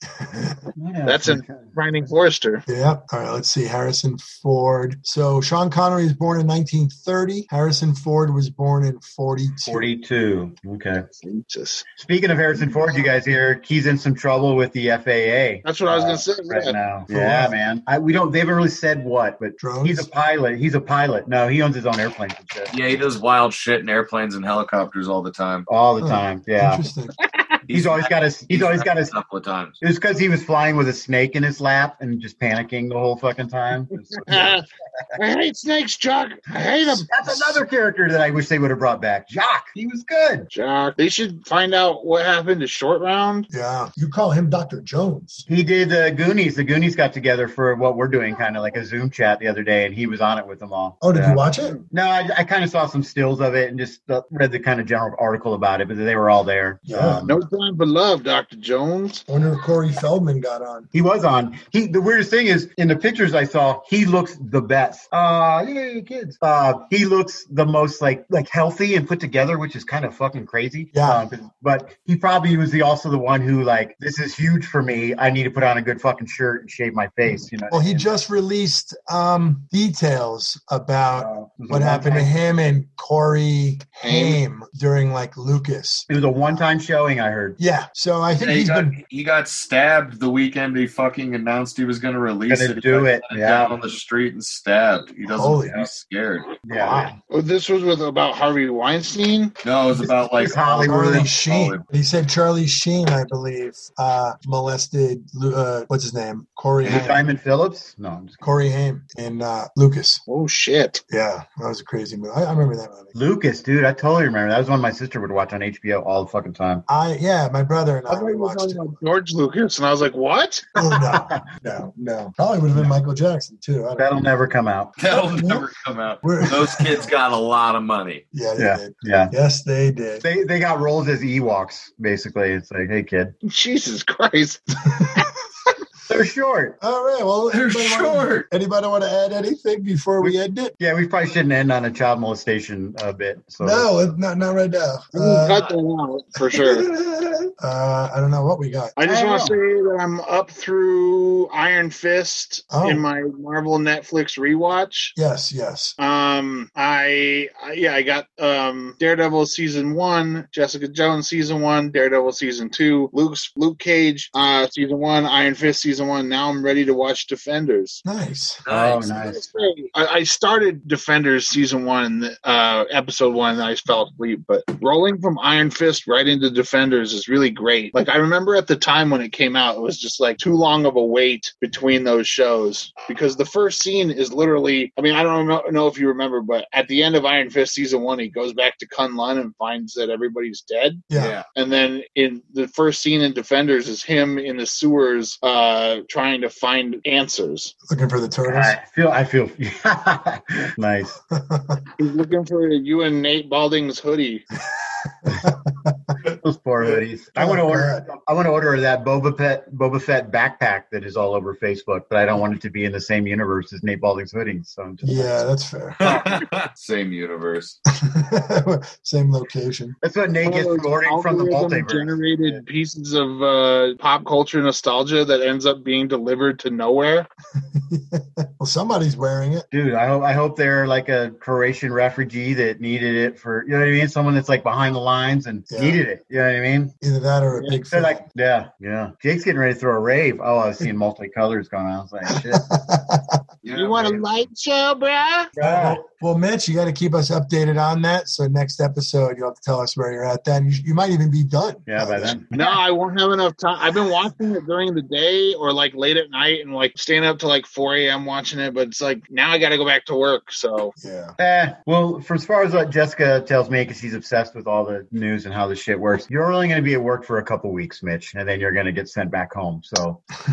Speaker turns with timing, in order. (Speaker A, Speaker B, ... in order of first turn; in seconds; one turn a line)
Speaker A: 0.2-0.7
Speaker B: 0.8-1.7
Speaker C: 1.1-2.6
Speaker A: 2.7-9.9
Speaker B: 9.7-11.1
Speaker C: 11.2-11.9
Speaker B: 12.0-22.7
Speaker C: 15.6-16.8
Speaker A: 17.1-17.6
Speaker A: 19.6-20.1
Speaker D: 22.7-25.7
Speaker B: 25.7-26.9
Speaker A: 26.0-27.1
Speaker C: 27.2-27.6
Speaker D: 27.7-29.8
Speaker B: 27.7-29.2
Speaker B: 29.8-35.2
Speaker C: 34.3-34.6
Speaker C: 35.2-37.1
Speaker A: 36.9-37.6
Speaker B: 37.1-40.5
Speaker C: 40.5-43.5
Speaker A: 43.5-45.5
Speaker B: 45.5-57.4
Speaker A: 51.0-51.8
Speaker A: 56.9-57.2
Speaker C: 57.2-59.2
Speaker A: 59.3-60.9
Speaker B: 60.9-78.1
Speaker A: 70.9-71.2
Speaker A: 77.7-86.1
Speaker B: 81.1-82.3
Speaker C: 84.0-84.4
Speaker B: 86.1-87.6
Speaker A: 87.6-89.0
Speaker D: 88.4-96.5
Speaker B: 92.5-93.8
Speaker A: 95.3-95.9
Speaker B: 96.7-97.2
Speaker A: 96.7-97.2
Speaker C: 97.3-99.6
Speaker D: 99.6-101.8
Speaker A: 100.0-107.3
Speaker B: 100.4-101.3
Speaker B: 106.8-108.4
Speaker A: 108.4-110.2
Speaker C: 110.3-111.0
Speaker A: 111.1-113.1
Speaker B: 113.1-116.8
Speaker A: 116.9-119.0
Speaker C: 118.1-120.7
Speaker A: 120.8-124.3
Speaker B: 121.1-121.4
Speaker B: 124.0-124.9
Speaker D: 125.0-128.2
Speaker A: 125.1-125.7
Speaker A: 126.2-127.1
Speaker A: 128.3-130.2
Speaker B: 128.6-129.3
Speaker B: 130.2-133.4
Speaker C: 133.4-134.6
Speaker A: 134.9-135.3
Speaker B: 136.1-136.8
Speaker A: 136.8-140.7
Speaker D: 137.7-138.5
Speaker B: 140.2-143.9
Speaker A: 143.6-145.6
Speaker C: 145.1-146.9
Speaker A: 146.5-148.9
Speaker C: 149.0-155.2
Speaker B: 149.1-149.6
Speaker A: 152.7-153.1
Speaker A: 155.2-156.0
Speaker C: 156.0-168.0
Speaker A: 168.1-168.6
Speaker D: 168.7-169.2
Speaker B: 168.7-169.5
Speaker C: 169.2-191.0
Speaker A: 191.1-191.4
Speaker D: 191.2-191.5
Speaker C: 191.6-197.8
Speaker A: 197.9-198.8
Speaker B: 198.5-201.2
Speaker A: 201.3-201.8
Speaker C: 202.0-204.4
Speaker A: 205.2-206.2
Speaker B: 206.4-215.5
Speaker A: 206.8-208.1
Speaker A: 215.0-216.0
Speaker D: 216.0-217.8
Speaker A: 218.0-220.0
Speaker B: 220.0-222.6
Speaker C: 220.4-227.3
Speaker A: 227.6-229.7
Speaker B: 229.7-236.9
Speaker A: 235.7-236.0
Speaker A: 237.0-238.2
Speaker B: 237.9-242.6
Speaker A: 242.3-243.4
Speaker D: 243.6-244.2
Speaker C: 243.7-245.5
Speaker B: 245.6-246.0
Speaker A: 245.6-252.4
Speaker B: 251.9-252.7
Speaker C: 252.5-260.9
Speaker A: 261.0-261.4
Speaker B: 261.4-270.2